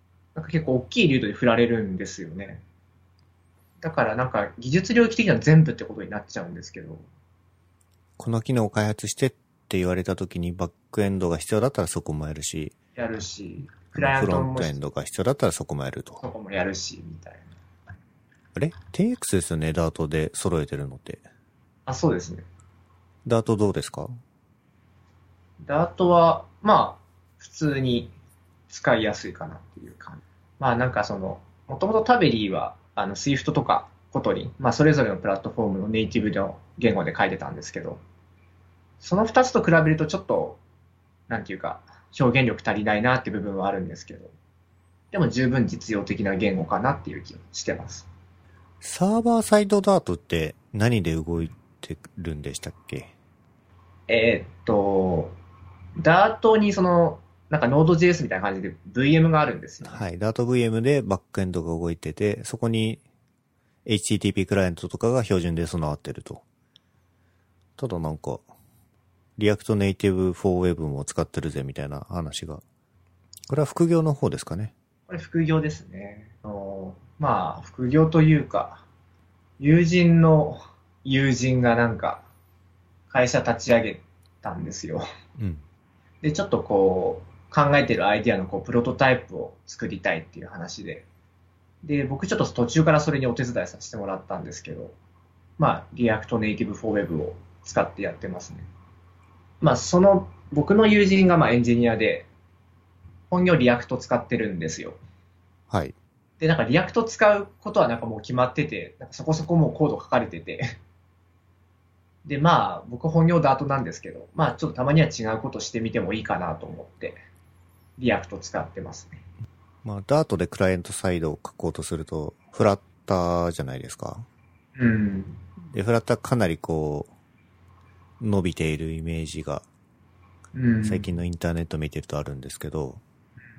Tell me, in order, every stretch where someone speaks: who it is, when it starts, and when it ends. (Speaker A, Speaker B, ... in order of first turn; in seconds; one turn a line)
Speaker A: 0.3-2.6
Speaker A: 3.8-7.0
Speaker B: 8.2-12.8
Speaker A: 12.9-14.8
Speaker B: 13.9-16.2
Speaker A: 16.2-17.5
Speaker B: 18.6-21.2
Speaker A: 21.9-22.4
Speaker B: 23.2-24.1
Speaker A: 25.6-28.1
Speaker A: 28.7-38.0
Speaker A: 39.0-40.6
Speaker A: 41.3-44.3
Speaker A: 45.1-48.1
Speaker B: 48.8-53.1
Speaker A: 54.1-55.3
Speaker A: 56.0-60.0
Speaker B: 59.8-63.0
Speaker B: 63.8-66.4
Speaker B: 67.8-68.5
Speaker B: 69.4-72.6
Speaker B: 73.5-74.7
Speaker A: 75.1-78.8
Speaker A: 79.6-82.2
Speaker A: 83.1-85.0
Speaker B: 85.4-85.6
Speaker A: 86.2-91.0
Speaker A: 91.8-94.9
Speaker A: 95.6-98.7
Speaker A: 99.6-102.3
Speaker A: 103.3-105.0
Speaker B: 105.7-106.0
Speaker A: 106.4-110.7
Speaker A: 112.2-117.2
Speaker A: 118.0-119.2
Speaker B: 119.8-124.3
Speaker A: 124.8-125.4
Speaker B: 125.7-127.1
Speaker B: 128.2-129.7
Speaker A: 130.5-131.1
Speaker B: 130.8-133.0